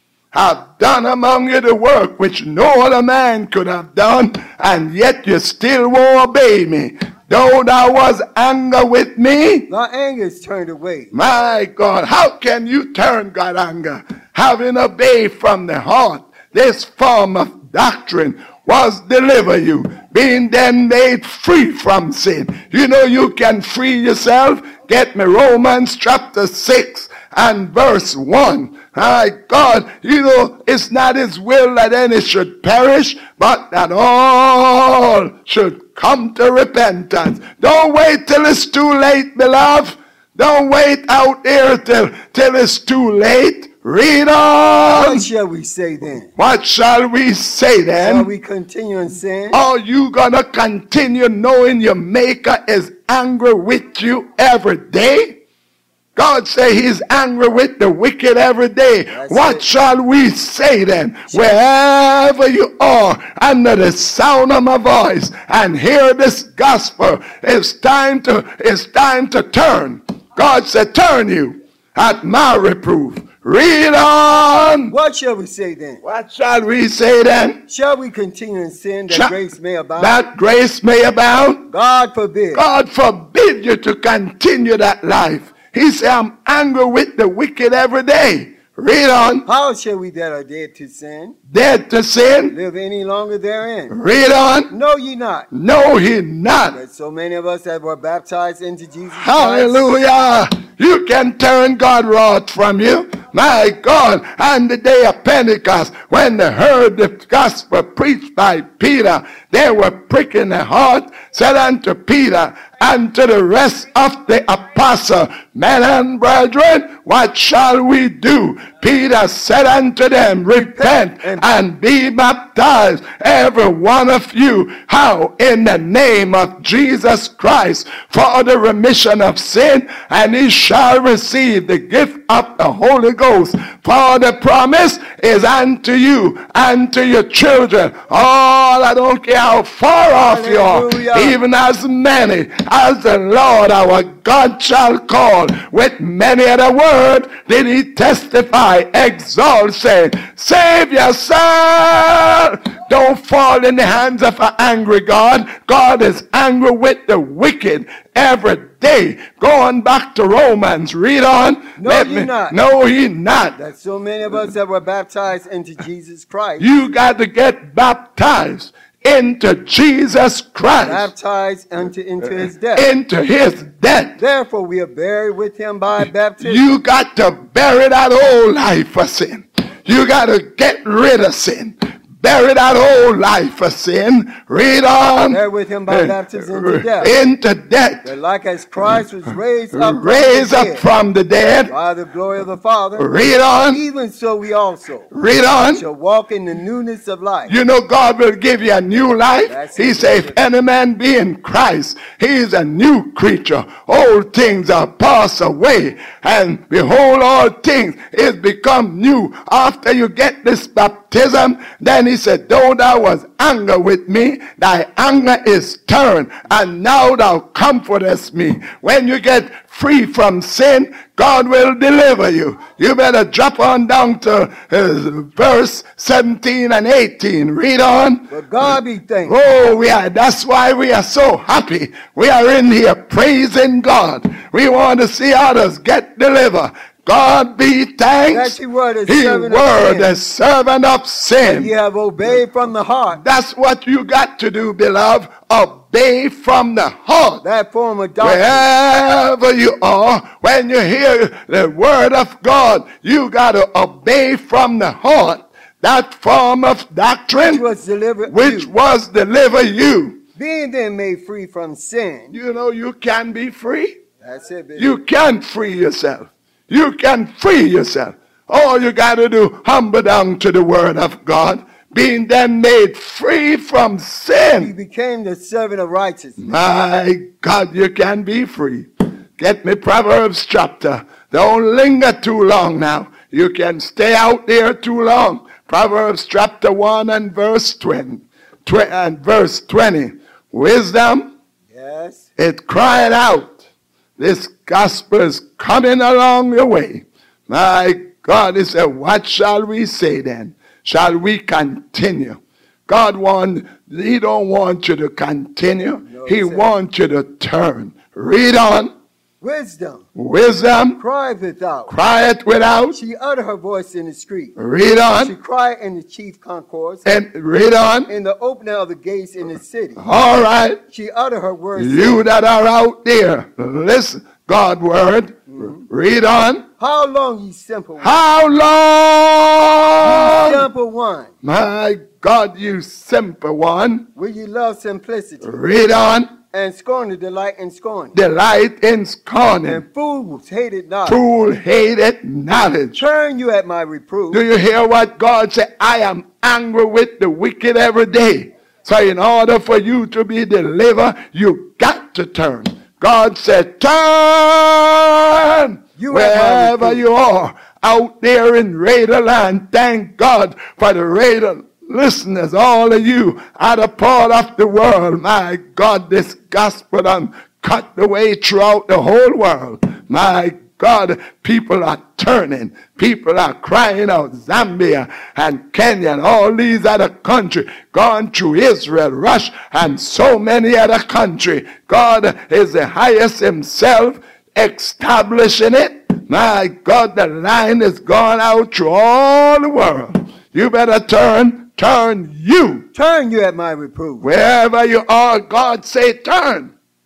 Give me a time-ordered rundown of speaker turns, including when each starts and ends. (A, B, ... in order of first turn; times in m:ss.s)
0:00.3-0:09.7 A
0:09.7-0:11.1 B
0:11.1-0:45.3 A
0:44.9-0:46.3 B
0:46.4-0:48.3 A
0:48.0-0:49.6 B
0:49.5-0:55.4 A
0:56.2-1:14.9 A
0:59.1-0:59.7 B
1:14.9-1:16.0 B
1:16.0-1:17.6 A
1:17.7-1:20.2 B
1:19.1-1:19.4 A
1:20.0-1:21.7 A
1:21.7-1:22.6 B
1:22.6-1:29.5 A
1:29.4-1:31.4 B
1:31.5-1:32.6 A
1:32.5-1:34.0 B
1:33.9-1:34.7 A
1:34.7-1:35.5 B
1:35.5-1:36.8 A
1:36.7-1:39.9 B
1:39.1-2:43.6 A
2:00.6-2:01.4 B
2:20.2-2:21.4 B
2:41.8-2:42.6 B
2:43.6-2:46.7 B
2:46.6-2:51.1 A
2:50.8-2:52.9 B
2:52.7-2:54.2 A
2:54.2-2:56.6 B
2:56.4-3:08.1 A
3:05.3-3:07.1 B
3:08.0-3:10.8 B
3:09.7-3:11.7 A
3:11.7-3:13.1 B
3:13.0-3:13.8 A
3:13.7-3:15.1 B
3:15.1-3:15.8 A
3:15.7-3:17.6 B
3:17.5-4:01.7 A
3:19.5-3:20.4 B
3:48.3-3:49.4 B
3:58.3-4:00.1 B
4:01.4-4:03.2 B
4:03.1-4:07.4 A
4:07.4-4:08.7 B
4:08.2-4:17.6 A
4:17.4-4:18.7 B
4:18.3-4:20.2 A
4:20.4-4:22.4 B
4:22.3-4:24.0 A
4:24.2-4:25.0 B
4:24.8-4:34.7 A
4:34.6-4:36.5 B
4:36.4-4:51.3 A
4:51.7-4:52.3 B
4:52.4-4:53.6 A
4:54.2-5:08.9 A
5:06.0-5:06.7 B
5:09.4-5:10.1 B
5:10.2-5:11.0 A
5:11.0-5:12.0 B
5:11.9-5:13.0 A
5:12.9-5:14.6 B
5:14.6-5:15.3 A
5:15.2-5:17.1 B
5:17.0-5:18.1 A
5:18.1-5:20.0 B
5:20.0-5:20.8 A
5:20.9-5:22.2 B
5:21.8-5:26.7 A
5:25.5-5:25.8 B
5:26.8-5:28.2 B
5:28.0-5:30.7 A
5:30.0-5:31.3 B
5:31.4-5:34.1 A
5:34.2-5:35.6 B
5:35.4-5:36.3 A
5:36.5-5:38.2 B
5:38.1-5:39.8 A
5:39.6-5:41.2 B
5:41.1-5:43.0 A
5:42.9-5:44.4 B
5:44.3-6:32.9 A
5:56.0-5:57.0 B
6:32.9-6:34.3 B
6:34.2-6:36.7 A